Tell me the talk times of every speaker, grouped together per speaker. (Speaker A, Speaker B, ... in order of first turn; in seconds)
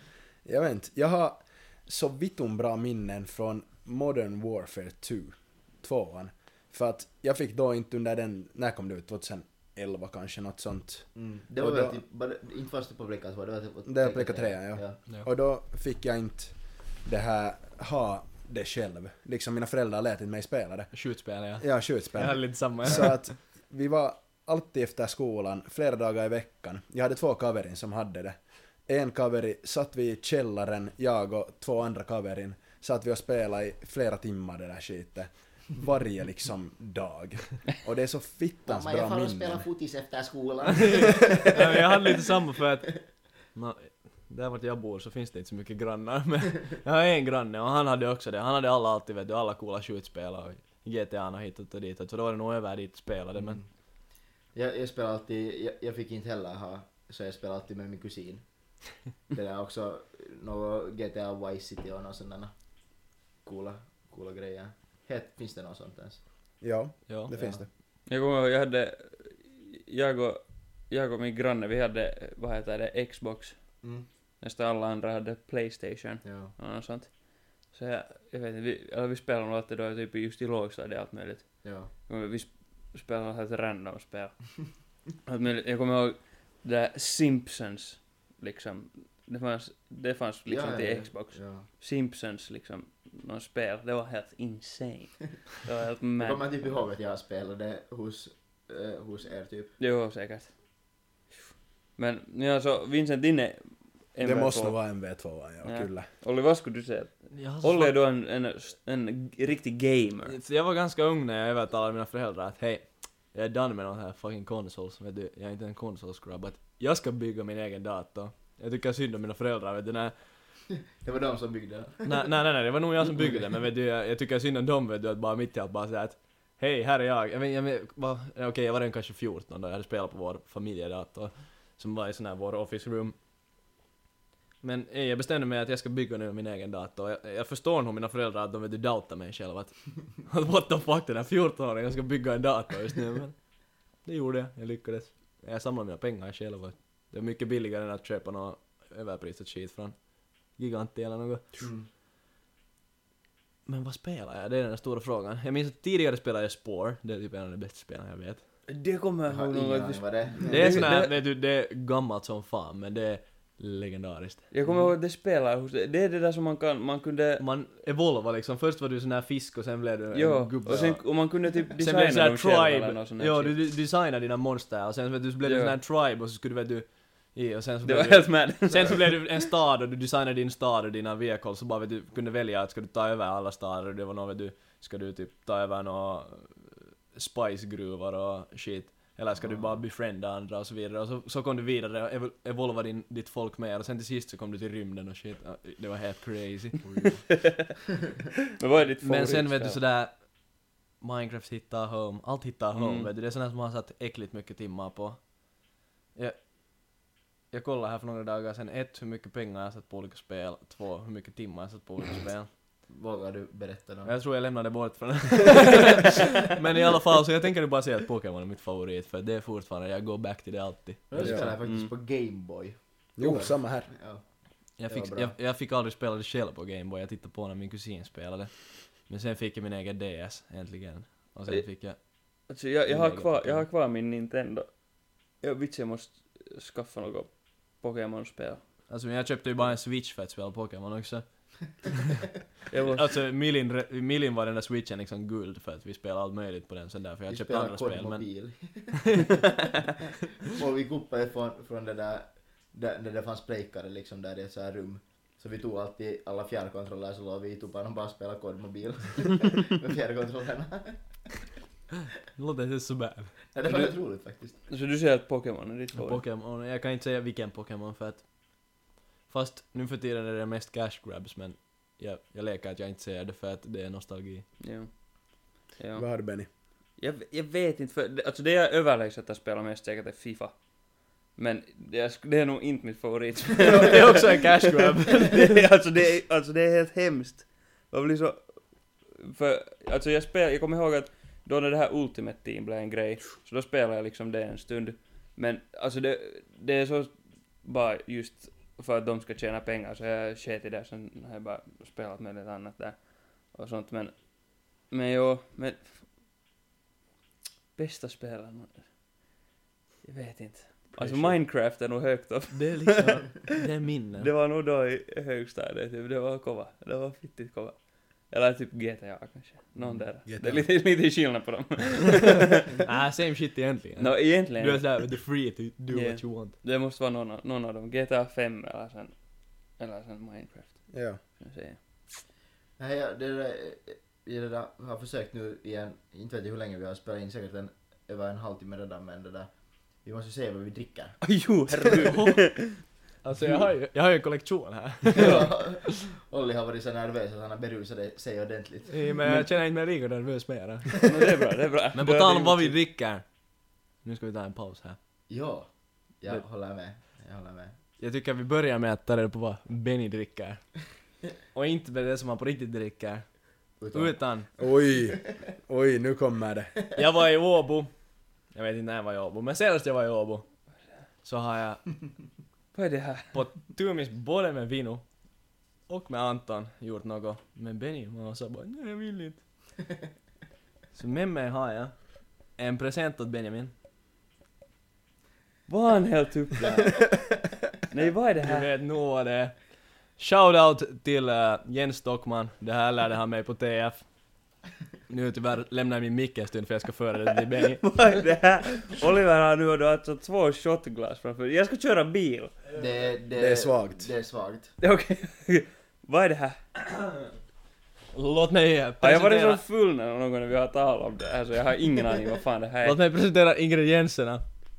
Speaker A: 0.4-12.0, 13.8-20.9, 21.6-39.7, 66.6-67.7, 104.2-106.1, 160.4-160.9, 221.2-221.5, 223.2-223.9, 275.9-276.5, 330.9-331.2, 364.6-366.7, 403.3-404.1
Speaker B: 11.2-15.0, 38.6-42.1, 53.4-53.7, 54.5-62.5, 63.4-66.2, 67.3-67.6, 73.8-74.1, 76.2-76.5, 81.6-81.9, 90.5-91.7, 96.2-99.7, 120.8-122.3, 123.1-123.5, 151.6-151.9, 159.3-160.7, 189.4-189.8, 212.8-214.1, 221.1-225.3, 247.3-249.2, 250.4-261.3, 263.5-264.6, 332.8-341.3, 345.1-348.9, 355.3-357.7, 363.8-364.2, 402.7-404.7
Speaker C: 20.9-23.2, 40.8-53.6, 67.1-67.3, 107.3-107.9, 110.2-120.2, 122.0-133.1, 134.6-143.5, 144.0-151.6, 153.7-158.4, 160.5-164.5, 167.4-197.5, 199.0-205.6, 206.1-212.5, 214.0-221.5, 224.8-232.0, 232.8-233.7, 238.9-241.9, 242.8-249.5, 262.3-263.5, 265.9-274.4, 283.6-285.6, 310.9-311.4, 312.5-314.3, 322.8-326.5, 341.9-345.9, 348.9-351.1, 351.9-353.2, 354.0-355.0, 358.0-360.7, 361.5-364.5, 366.9-367.9, 368.5-370.4, 371.2-372.0, 373.3-375.1, 375.9-379.4, 380.9-383.7, 388.4-394.1, 395.1-397.8, 408.1-409.6, 412.8-414.4
Speaker D: 68.0-73.9, 74.4-84.5, 85.2-96.8, 99.8-100.6, 102.0-105.0, 105.6-110.3, 158.7-161.2, 164.5-167.4, 170.1-173.6, 175.4-175.8, 177.8-179.3, 197.3-197.7, 198.6-199.8, 202.7-203.1, 221.6-221.9, 231.5-238.6, 242.7-243.1, 263.6-266.2, 274.6-276.1, 277.0-280.7, 281.3-297.1, 297.6-306.0, 307.8-308.9, 310.0-313.3, 314.2-322.6, 324.0-325.1, 325.9-331.8, 341.2-342.8, 345.1-345.5, 351.0-352.8, 372.7-373.4, 385.7-387.3, 387.9-388.7, 397.8-402.5, 404.8-407.1, 409.0-413.0